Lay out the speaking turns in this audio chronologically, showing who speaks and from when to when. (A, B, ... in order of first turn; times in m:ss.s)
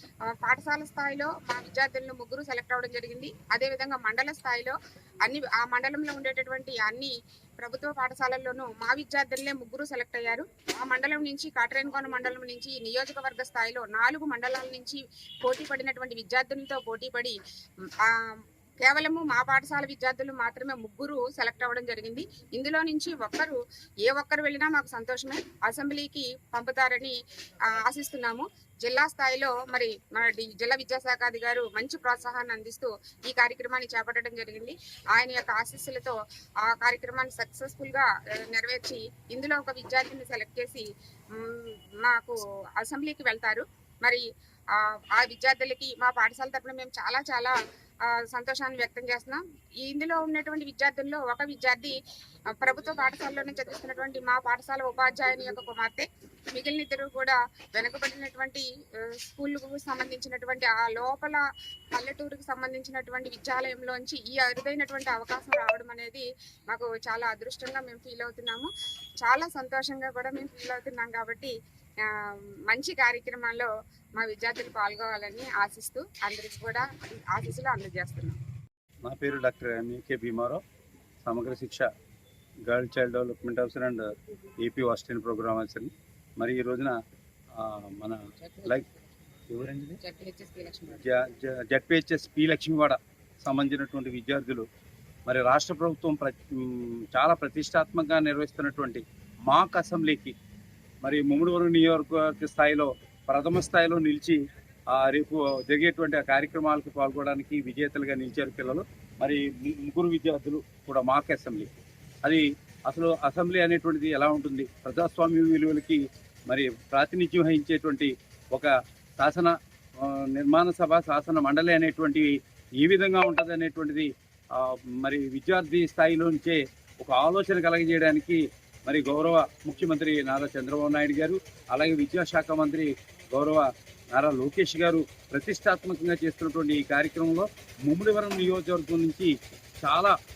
0:00.3-0:17.4 A
0:18.8-0:27.2 A
0:27.8-0:40.8 A
0:41.4-0:44.2 A
0:44.7-0:47.5 A
0:48.2-0:52.0 A
0:52.6-1:01.4 A
1:01.9-1:08.7 A
1:09.2-1:11.5 A
1:12.2-1:18.4 A
1:19.0-1:20.6 B
1:21.2-1:21.8 B
1:22.7-1:26.9 B
1:27.5-1:28.8 B
1:28.4-1:28.8 A
1:29.5-1:30.0 B
1:30.0-1:31.0 A
1:31.0-1:34.6 B
1:35.2-1:40.3 B
1:41.0-1:44.4 B
1:44.9-1:51.7 B
1:52.2-2:20.1 B